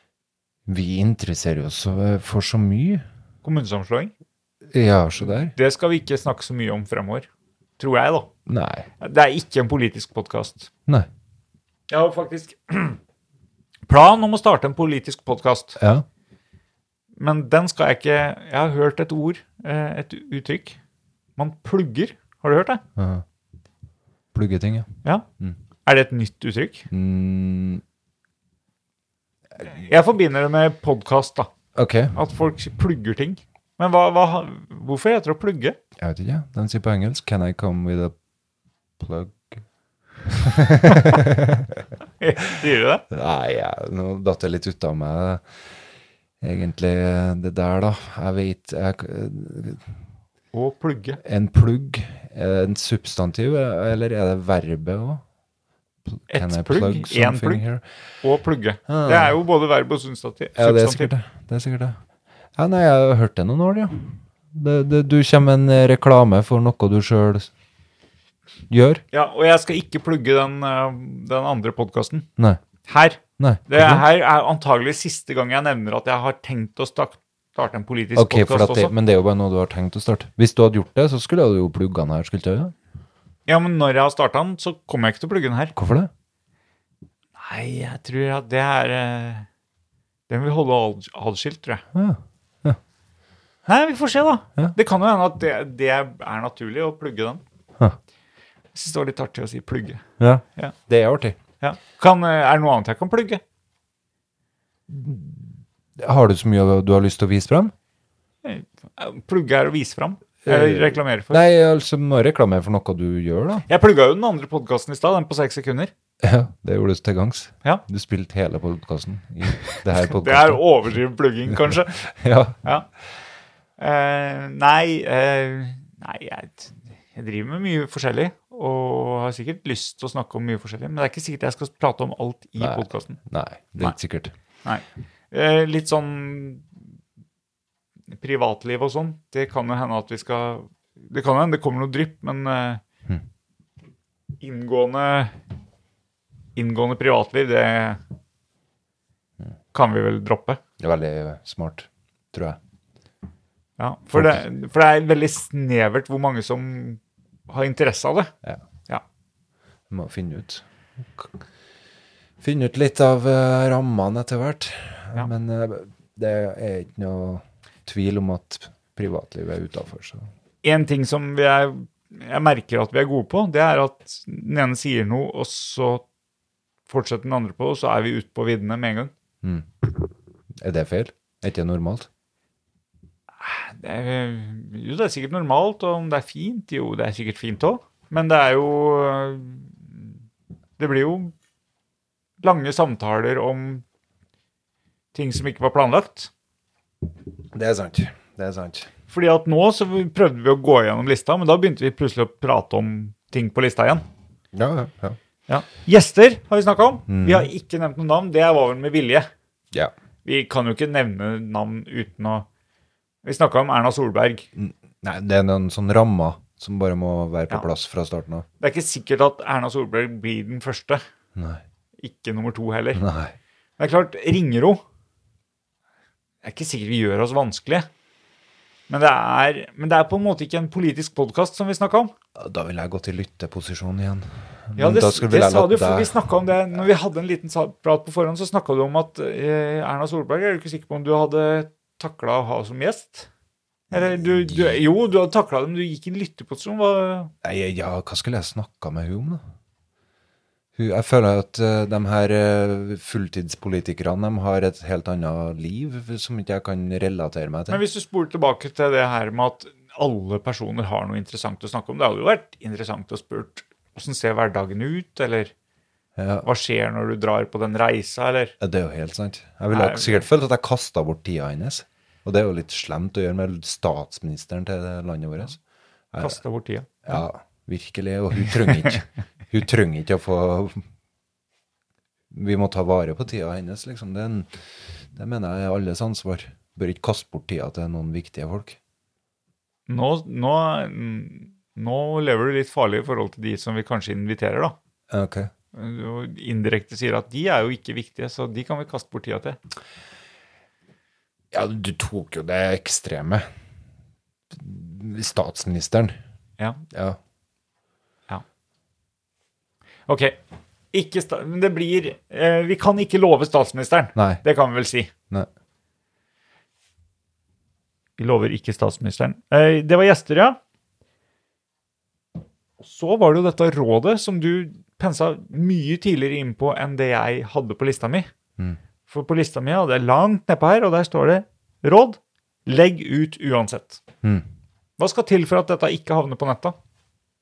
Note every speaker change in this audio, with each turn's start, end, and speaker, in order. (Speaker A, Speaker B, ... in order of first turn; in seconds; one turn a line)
Speaker A: 0.7-3.0
Speaker B: 3.4-4.1
Speaker A: 4.7-5.5
Speaker B: 5.5-7.3
Speaker B: 7.8-8.3
Speaker A: 8.5-8.9
Speaker B: 9.0-10.7
Speaker B: 11.9-13.0
Speaker B: 13.9-15.8
Speaker A: 15.8-16.0
Speaker B: 17.2-20.8
Speaker B: 21.4-22.8
Speaker A: 23.0-23.2
Speaker A: 24.3-24.9
Speaker B: 25.9-26.9
Speaker A: 26.9-27.8
Speaker B: 29.6-31.5
Speaker A: 31.7-32.1
Speaker B: 32.1-35.8
Speaker A: 36.0-38.1
Speaker A: 39.0-39.6
Speaker A: 40.2-41.9
Speaker B: 42.2-43.0
Speaker A: 43.1-45.4
Speaker A: 46.4-49.9
Speaker B: 50.5-51.2
Speaker A: 51.2-55.2
Speaker A: 56.1-57.8
Speaker B: 56.3-57.6
Speaker B: 58.2-61.1
Speaker A: 58.9-59.4
Speaker A: 60.5-62.0
Speaker A: 62.6-67.5
Speaker A: 68.7-69.0
Speaker B: 69.1-72.3
Speaker B: 72.9-78.9
Speaker A: 73.4-74.0
Speaker A: 78.1-82.7
Speaker B: 83.5-85.7
Speaker A: 85.8-86.1
Speaker B: 87.4-89.5
Speaker B: 90.3-91.8
Speaker A: 91.9-92.8
Speaker B: 93.7-97.4
Speaker B: 98.7-100.0
Speaker A: 100.2-101.4
Speaker B: 101.6-103.4
Speaker A: 104.9-107.7
Speaker B: 108.4-111.4
Speaker A: 110.4-113.7
Speaker B: 113.7-115.9
Speaker A: 116.2-120.6
Speaker B: 120.0-122.0
Speaker A: 121.5-122.6
Speaker B: 123.8-133.2
Speaker A: 132.6-134.3
Speaker B: 134.6-136.7
Speaker B: 138.1-142.8
Speaker B: 144.4-145.3
Speaker B: 146.6-148.0
Speaker B: 149.7-150.6
Speaker A: 150.8-152.6
Speaker B: 153.8-158.3
Speaker A: 159.9-161.4
Speaker A: 162.4-170.3
Speaker B: 170.6-176.0
Speaker B: 176.9-179.1
Speaker A: 179.4-180.1
Speaker A: 180.6-182.1
Speaker B: 183.4-190.1
Speaker B: 190.8-191.3
Speaker B: 192.4-193.8
Speaker B: 195.1-196.3
Speaker A: 197.5-198.9
Speaker B: 199.1-204.0
Speaker A: 204.5-205.2
Speaker B: 205.5-209.3
Speaker A: 207.1-207.5
Speaker B: 210.2-212.4
Speaker B: 213.2-214.5
Speaker A: 214.6-218.4
Speaker B: 218.6-221.0
Speaker A: 221.3-221.6
Speaker B: 222.0-223.0
Speaker A: 222.9-223.3
Speaker B: 223.8-224.8
Speaker B: 226.4-227.9
Speaker B: 228.9-232.1
Speaker A: 232.3-236.2
Speaker B: 234.8-243.3
Speaker B: 243.9-247.3
Speaker A: 244.2-244.8
Speaker A: 247.4-249.4
Speaker A: 250.8-257.8
Speaker B: 257.7-265.5
Speaker A: 266.2-266.4
Speaker B: 266.4-268.5
Speaker A: 268.6-275.6
Speaker B: 269.7-270.2
Speaker A: 276.1-276.4
Speaker B: 276.2-277.1
Speaker A: 277.0-280.8
Speaker A: 282.3-284.5
Speaker A: 285.1-288.8
Speaker B: 289.9-294.7
Speaker A: 295.1-295.5
Speaker B: 295.7-299.6
Speaker A: 301.5-303.4
Speaker A: 304.5-306.1
Speaker A: 306.9-307.2
Speaker B: 310.1-310.4
Speaker B: 310.9-315.1
Speaker A: 314.1-314.4
Speaker B: 318.2-320.6
Speaker B: 322.8-328.3
Speaker B: 329.1-334.0
Speaker B: 335.0-336.7